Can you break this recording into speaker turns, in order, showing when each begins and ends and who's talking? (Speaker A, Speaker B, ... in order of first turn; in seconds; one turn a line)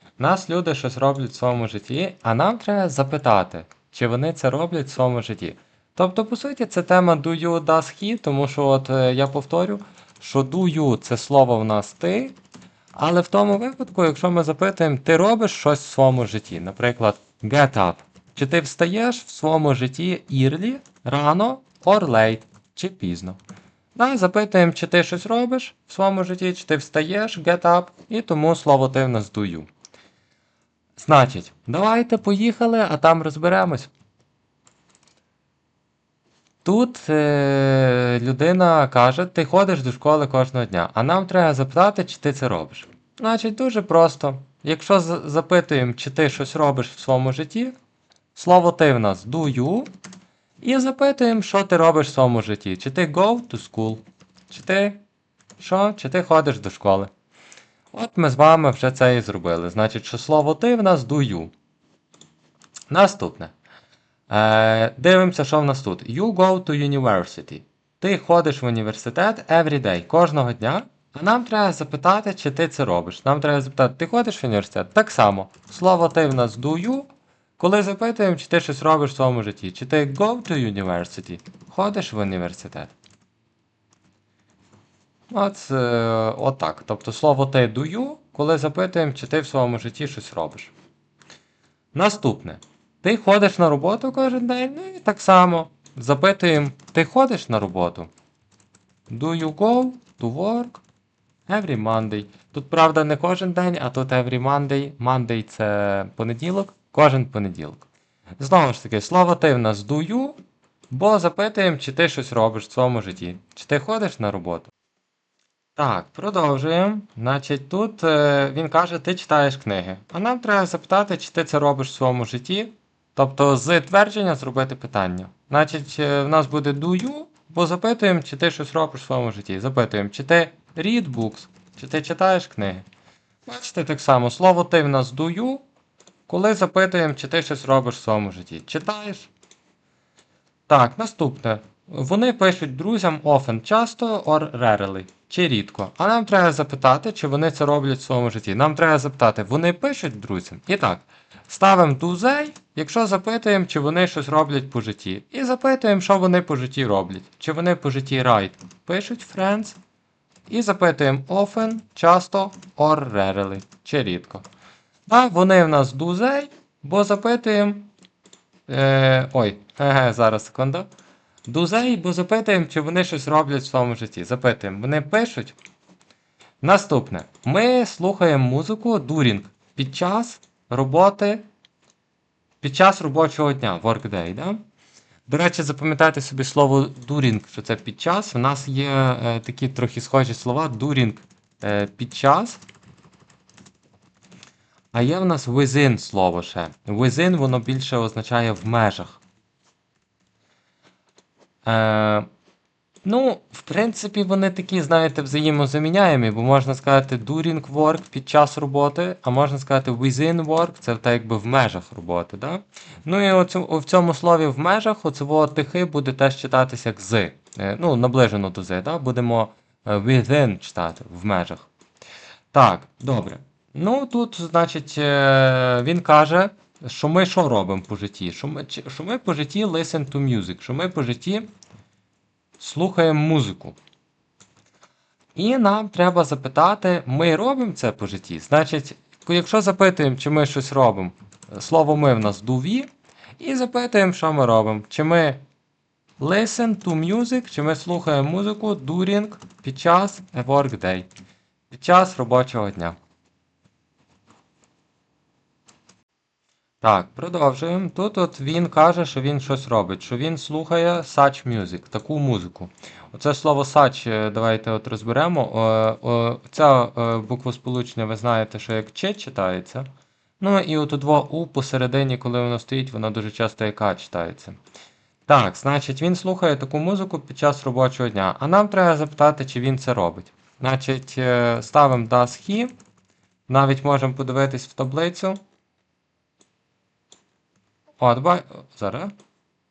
Speaker A: 0.2-12.3
Speaker A: 12.9-23.4
Speaker A: 23.9-29.7
Speaker A: 31.0-33.9
Speaker A: 36.6-47.7
Speaker A: 48.3-49.9
Speaker A: 50.6-55.0
Speaker A: 55.6-57.1
Speaker A: 57.9-61.5
Speaker A: 62.9-63.5
Speaker A: 64.3-82.9
Speaker A: 85.3-90.7
Speaker A: 91.9-98.1
Speaker A: 99.1-100.8
Speaker A: 101.5-107.9
Speaker A: 108.4-110.3
Speaker A: 110.9-114.7
Speaker A: 115.8-132.8
Speaker A: 133.4-135.6
Speaker A: 136.3-139.3
Speaker A: 140.7-159.8
Speaker A: 160.5-164.4
Speaker A: 165.1-167.9
Speaker A: 168.7-170.9
Speaker A: 171.5-175.6
Speaker A: 176.6-181.4
Speaker A: 182.6-184.6
Speaker A: 185.3-192.6
Speaker A: 194.9-199.2
Speaker A: 201.6-202.3
Speaker A: 203.0-221.7
Speaker A: 222.5-231.5
Speaker A: 232.6-233.8
Speaker A: 235.3-245.4
Speaker A: 246.2-251.1
Speaker A: 251.7-253.0
Speaker A: 256.8-269.9
Speaker A: 270.4-274.6
Speaker A: 275.3-282.7
Speaker A: 283.5-285.4
Speaker A: 288.0-289.1